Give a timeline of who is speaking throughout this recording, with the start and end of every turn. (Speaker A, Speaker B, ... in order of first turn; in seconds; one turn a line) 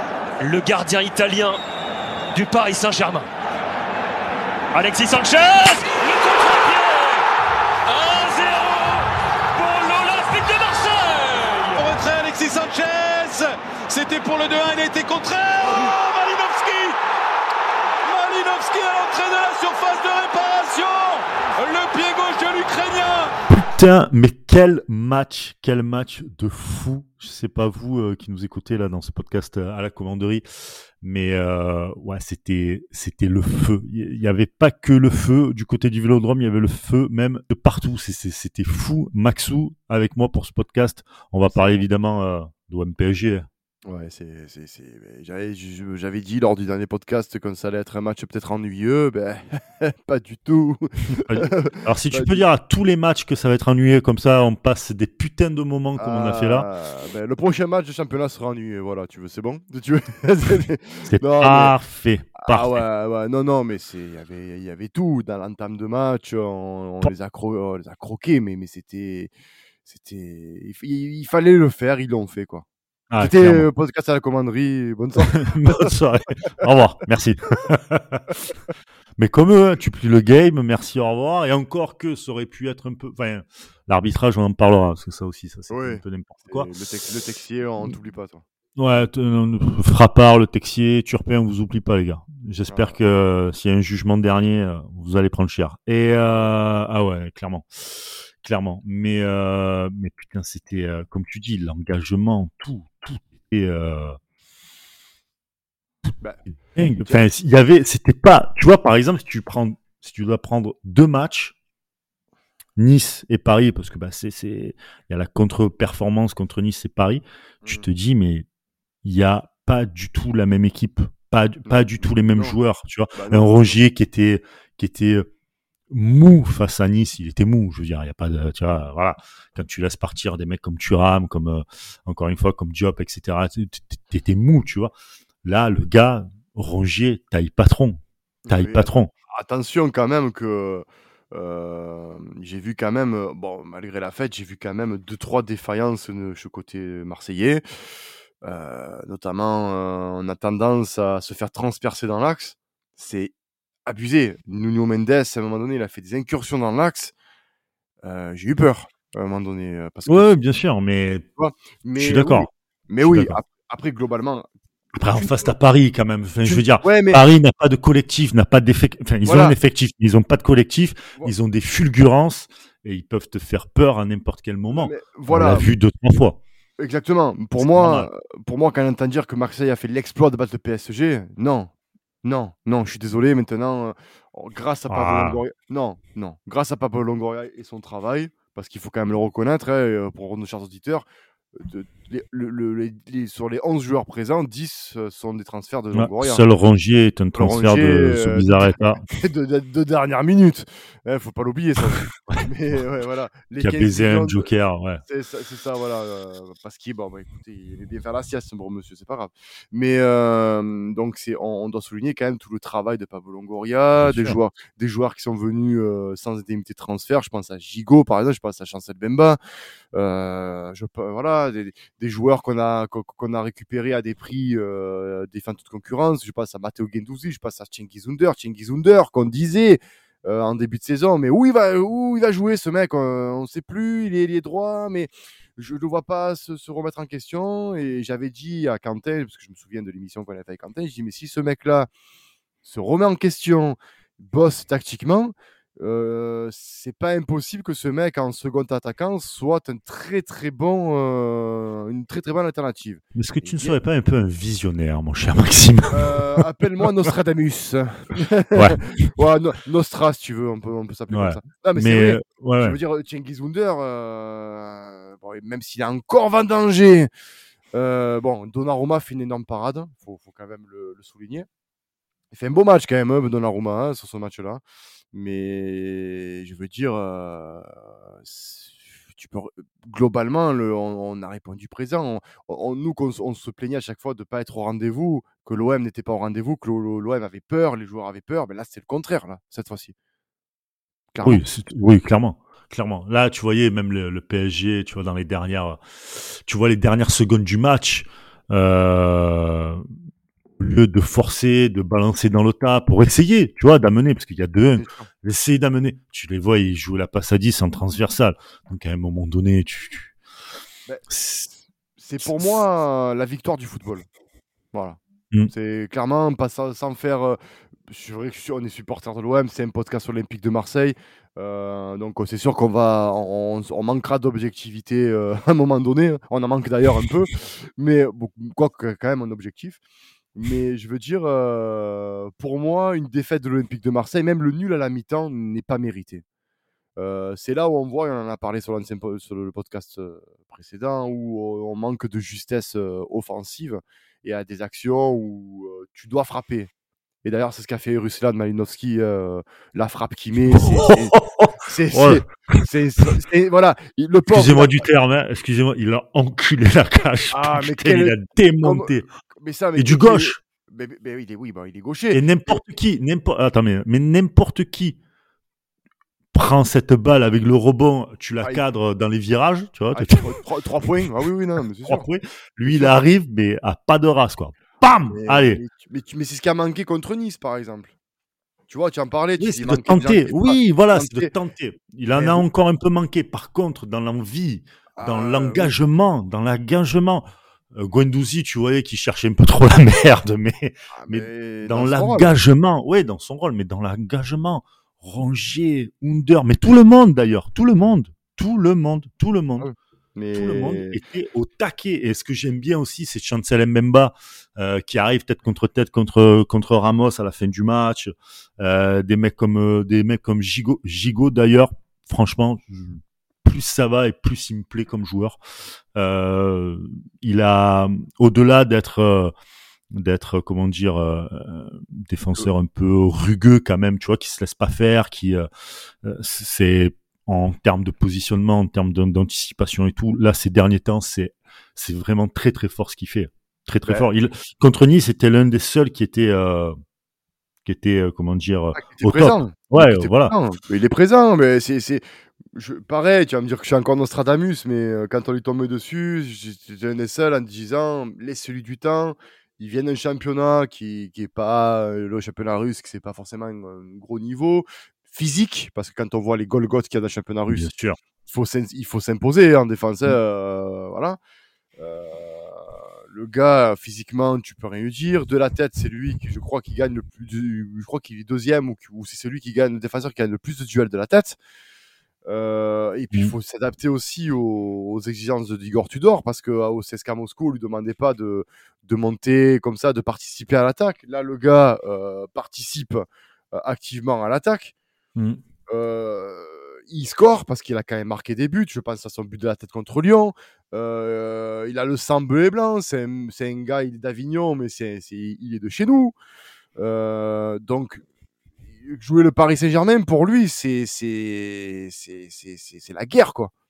Speaker A: 0.4-1.6
Speaker A: 2.3-3.2
Speaker A: 4.7-7.3
Speaker A: 7.9-11.9
Speaker B: 11.7-17.0
Speaker B: 18.0-23.4
Speaker C: 23.5-43.5
Speaker D: 41.5-41.8
Speaker D: 43.9-52.5
Speaker C: 51.1-56.7
Speaker D: 56.0-61.8
Speaker C: 61.1-62.8
Speaker D: 62.4-69.3
Speaker D: 69.8-72.7
Speaker C: 73.1-73.7
Speaker D: 73.2-75.9
Speaker C: 75.3-78.3
Speaker C: 79.2-86.7
Speaker D: 85.7-88.4
Speaker C: 88.8-104.2
Speaker D: 92.7-93.0
Speaker C: 106.8-111.5
Speaker D: 107.0-107.2
Speaker C: 112.8-118.5
Speaker D: 117.6-117.9
Speaker C: 119.0-125.3
Speaker D: 121.7-122.6
Speaker D: 123.1-123.8
Speaker C: 125.9-134.9
Speaker C: 135.4-139.1
Speaker D: 138.4-147.6
Speaker D: 148.4-153.3
Speaker D: 153.9-157.1
Speaker D: 158.0-160.3
Speaker C: 160.1-161.2
Speaker D: 161.4-164.5
Speaker C: 162.0-162.5
Speaker C: 163.1-163.4
Speaker C: 164.9-176.4
Speaker D: 165.1-165.5
Speaker D: 166.4-167.2
Speaker D: 169.2-169.6
Speaker D: 174.7-175.7
Speaker D: 176.8-181.7
Speaker C: 177.6-178.1
Speaker D: 182.2-196.4
Speaker C: 184.9-185.4
Speaker C: 195.9-199.0
Speaker D: 197.3-204.5
Speaker C: 203.6-205.0
Speaker D: 205.1-219.4
Speaker C: 214.0-214.4
Speaker D: 219.9-241.9
Speaker D: 242.6-253.8
Speaker C: 253.2-256.4
Speaker D: 255.9-267.1
Speaker C: 258.5-258.8
Speaker C: 261.1-262.8
Speaker D: 267.7-271.5
Speaker D: 272.3-274.6
Speaker D: 275.1-289.9
Speaker D: 291.1-291.4
Speaker C: 291.2-299.9
Speaker C: 300.6-310.1
Speaker D: 304.8-305.1
Speaker C: 311.1-311.5
Speaker D: 312.0-314.1
Speaker C: 312.2-312.5
Speaker D: 314.7-315.0
Speaker D: 315.5-329.8
Speaker D: 330.4-336.2
Speaker D: 337.0-346.7
Speaker D: 347.2-354.8
Speaker C: 350.5-352.6
Speaker C: 354.3-359.1
Speaker D: 357.3-362.6
Speaker C: 359.8-360.4
Speaker C: 362.1-365.0
Speaker C: 366.3-370.3
Speaker D: 369.9-372.1
Speaker C: 371.9-375.6
Speaker D: 372.7-372.9
Speaker D: 375.1-377.9
Speaker D: 378.7-381.3
Speaker C: 379.4-399.7
Speaker D: 382.1-382.5
Speaker D: 385.0-385.7
Speaker D: 390.9-392.3
Speaker D: 399.6-401.0
Speaker C: 400.3-415.4
Speaker C: 415.9-419.3
Speaker C: 419.9-425.5
Speaker C: 426.0-436.8
Speaker C: 437.6-440.3
Speaker D: 438.8-457.7
Speaker C: 457.5-458.0
Speaker D: 458.3-461.2
Speaker D: 461.8-471.4
Speaker D: 472.3-484.7
Speaker D: 485.7-496.1
Speaker D: 496.8-498.0
Speaker D: 498.8-503.5